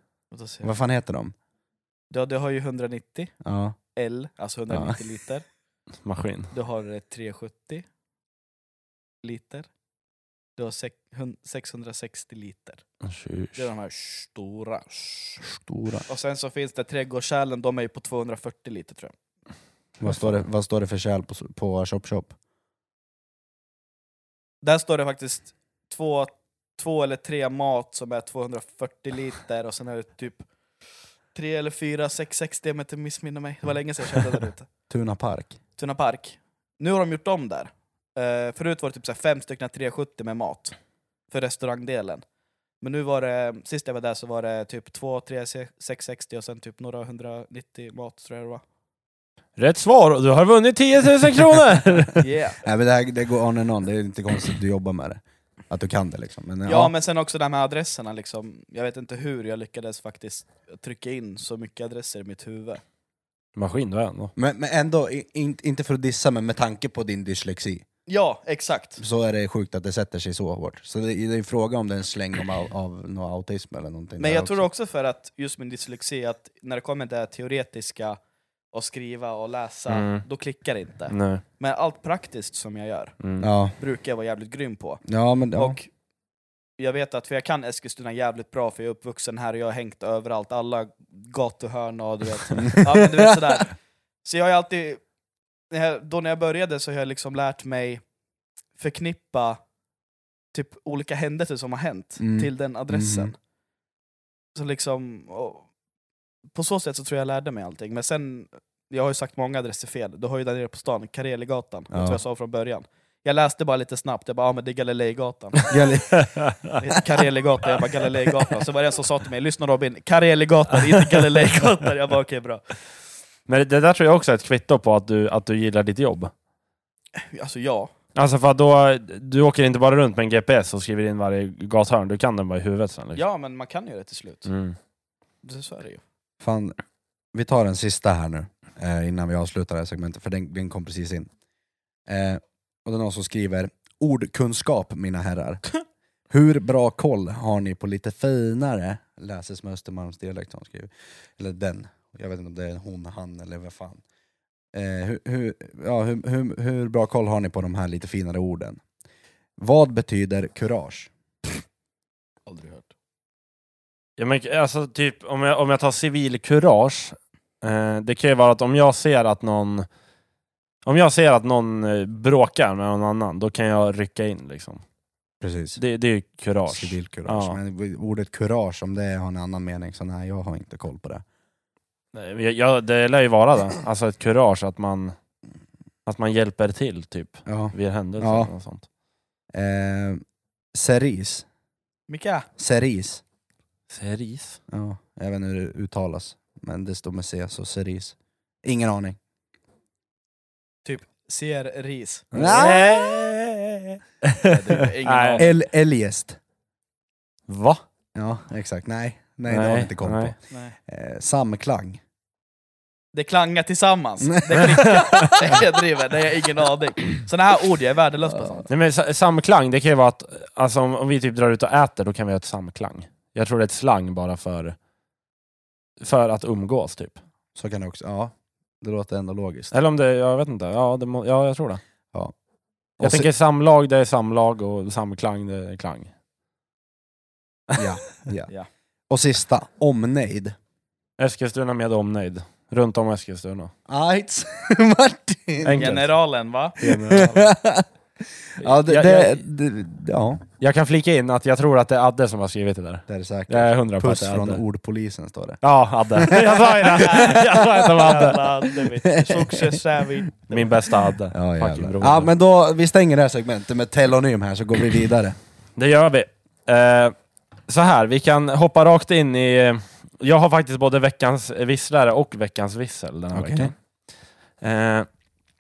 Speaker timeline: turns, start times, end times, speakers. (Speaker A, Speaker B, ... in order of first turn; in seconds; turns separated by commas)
Speaker A: 0.3-0.7, Speaker B: 0.6-1.3, Speaker A: 2.1-3.3, Speaker B: 3.4-3.8, Speaker A: 4.0-5.5, Speaker B: 4.7-5.0, Speaker C: 6.0-6.5, Speaker A: 6.5-7.9, Speaker A: 9.2-9.7, Speaker A: 10.6-12.8, Speaker C: 13.0-13.7, Speaker A: 13.6-15.4, Speaker B: 15.6-16.1, Speaker A: 16.1-19.1, Speaker B: 20.0-22.3, Speaker A: 20.1-20.3, Speaker A: 24.6-30.5, Speaker A: 31.3-34.7, Speaker B: 34.9-35.6, Speaker A: 35.8-40.8, Speaker A: 41.3-42.2, Speaker A: 42.8-48.6, Speaker C: 49.6-52.2, Speaker A: 52.2-52.6, Speaker B: 52.6-56.9, Speaker A: 56.7-62.8, Speaker C: 63.5-64.3, Speaker B: 64.4-67.8, Speaker A: 68.1-69.0, Speaker B: 69.0-74.7, Speaker A: 74.2-78.2, Speaker A: 78.7-83.2, Speaker C: 79.9-80.2, Speaker C: 81.1-81.4, Speaker C: 83.2-83.5, Speaker B: 83.4-83.8, Speaker A: 83.8-85.0, Speaker B: 85.0-85.8, Speaker A: 85.6-85.9, Speaker A: 86.8-95.0, Speaker B: 92.6-93.3, Speaker A: 95.7-98.0, Speaker A: 98.8-99.6, Speaker A: 100.5-103.4, Speaker B: 102.2-103.3, Speaker A: 104.5-105.7, Speaker A: 106.5-116.1, Speaker B: 111.9-112.2, Speaker B: 115.7-116.3, Speaker C: 116.2-116.7, Speaker A: 116.8-122.6, Speaker C: 123.5-126.3, Speaker A: 127.2-127.9, Speaker C: 128.2-133.2, Speaker A: 133.1-134.5, Speaker C: 134.5-134.8, Speaker A: 135.4-136.0, Speaker B: 136.4-136.8, Speaker B: 137.3-141.3, Speaker B: 142.1-145.7, Speaker B: 146.3-154.0, Speaker B: 154.7-158.8, Speaker B: 159.6-161.1, Speaker A: 162.5-162.9, Speaker C: 164.2-169.9, Speaker C: 170.9-174.8, Speaker B: 175.4-175.8, Speaker C: 175.8-177.6, Speaker B: 176.7-181.2, Speaker C: 182.1-185.2, Speaker C: 186.1-188.9, Speaker B: 187.5-188.5, Speaker B: 189.5-190.2, Speaker B: 190.7-191.4, Speaker A: 192.1-192.5, Speaker B: 192.6-193.2, Speaker C: 193.9-194.6, Speaker B: 194.7-199.2, Speaker A: 200.8-202.3, Speaker B: 202.3-203.2, Speaker C: 202.3-205.5, Speaker A: 204.4-205.5, Speaker B: 205.4-206.4, Speaker C: 207.5-207.8, Speaker B: 208.2-210.4, Speaker C: 209.5-210.3, Speaker A: 210.5-210.8, Speaker B: 210.9-212.0, Speaker A: 213.1-218.7, Speaker B: 214.2-215.6, Speaker C: 214.9-215.3, Speaker B: 218.4-218.6, Speaker C: 218.7-224.8, Speaker C: 226.0-227.2, Speaker B: 227.6-229.7, Speaker C: 229.7-231.8, Speaker B: 233.0-233.3, Speaker C: 233.0-236.1, Speaker B: 237.8-238.5, Speaker B: 239.1-240.6, Speaker C: 241.2-243.7, Speaker B: 243.9-246.0, Speaker C: 245.6-246.1, Speaker A: 245.8-247.4, Speaker C: 246.8-247.4, Speaker B: 246.8-247.9, Speaker B: 248.6-250.4, Speaker C: 248.6-249.4, Speaker C: 250.6-254.6, Speaker B: 253.1-258.3, Speaker C: 255.6-258.9, Speaker A: 257.0-260.8, Speaker B: 259.0-259.8, Speaker C: 260.5-262.3, Speaker B: 261.3-265.4, Speaker C: 265.8-267.1, Speaker C: 267.7-273.7, Speaker B: 273.3-273.7, Speaker C: 274.6-275.1